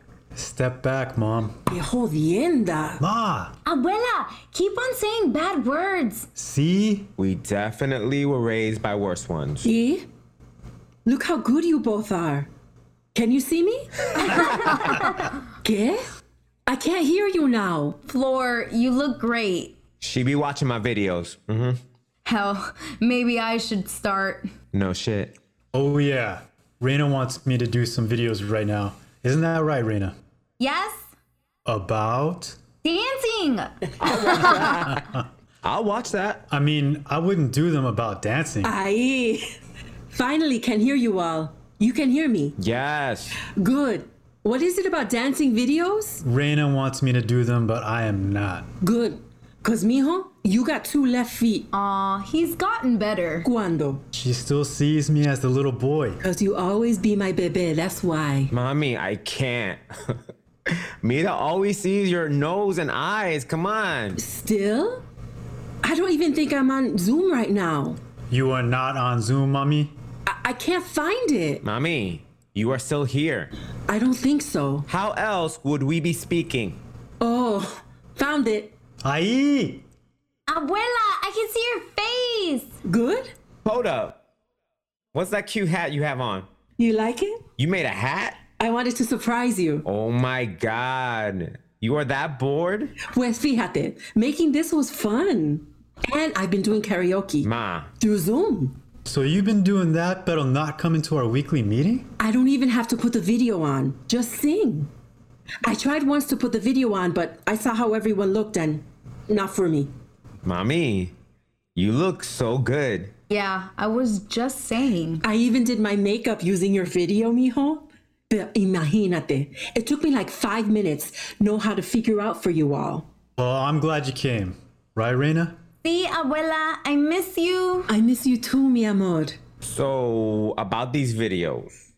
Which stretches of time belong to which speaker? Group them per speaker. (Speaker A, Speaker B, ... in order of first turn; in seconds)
Speaker A: 0.3-1.6, 3.0-3.6, 6.4-7.1, 25.7-30.1, 31.7-32.6, 36.5-38.7, 46.2-48.7, 54.1-56.2, 68.3-69.9, 79.0-79.8, 99.1-102.1, 123.4-125.6
Speaker B: 1.7-3.0, 9.6-10.0, 11.1-12.5, 13.2-15.0, 15.6-16.1, 16.7-18.0, 38.6-39.5, 40.1-42.6, 43.5-46.2, 48.8-51.7, 53.4-54.0, 56.2-58.5, 64.2-65.0, 65.8-68.0, 70.3-71.6, 73.9-74.9, 77.2-78.7, 82.8-83.3, 86.8-87.4, 88.6-89.8, 93.1-97.5, 98.0-98.8, 102.2-104.9, 105.6-109.9, 115.2-123.1, 127.9-129.4
Speaker C: 3.6-6.3, 14.4-15.0, 18.1-19.7, 22.2-24.5, 30.6-31.1, 32.8-34.9, 51.7-53.5, 80.5-82.8, 113.3-115.2, 125.8-127.9
Speaker D: 7.2-9.7, 20.0-21.8, 24.7-25.3, 34.2-34.5, 35.6-36.5, 42.6-43.4, 58.5-64.2, 71.6-73.5, 74.9-76.8, 83.7-84.1, 85.1-86.5, 87.6-88.4, 89.9-93.0, 97.4-97.9, 110.4-111.1, 111.8-113.1, 129.6-131.8